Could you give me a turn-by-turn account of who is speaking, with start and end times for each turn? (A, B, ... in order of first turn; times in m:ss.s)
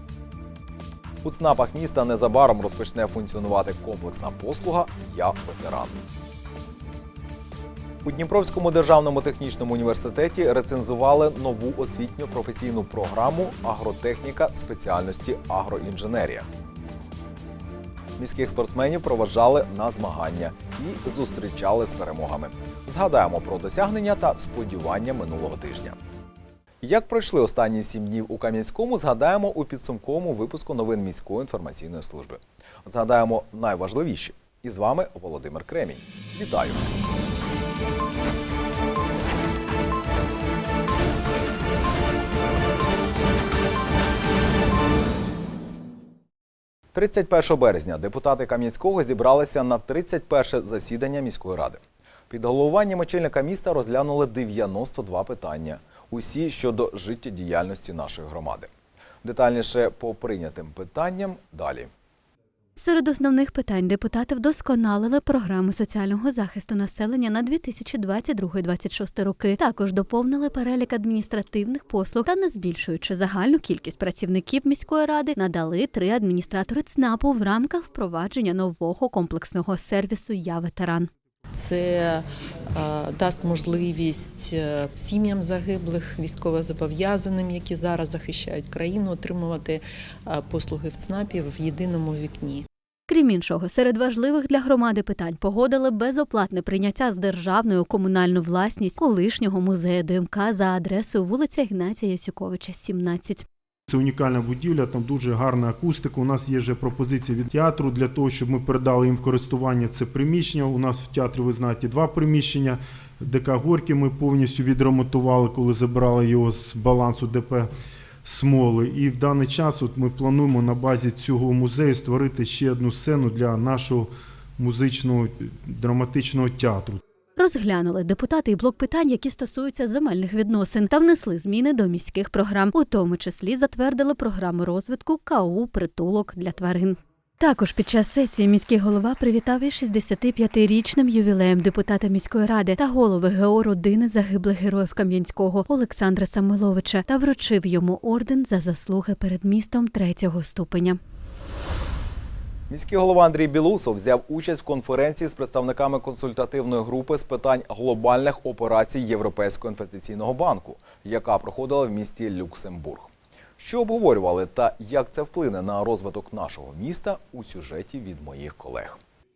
0:01.2-0:06.0 A
0:08.0-0:16.5 A
0:18.2-0:26.0 A
0:26.8-0:36.9 A
0:46.9-0:58.7 A
0:59.2-1:01.9 A
1:02.8-1:21.1 B
1:21.5-1:32.7 C
1:33.1-1:43.5 B
1:43.9-1:57.7 D
1:58.2-2:07.0 D
2:07.4-2:31.0 B
2:32.7-2:49.0 A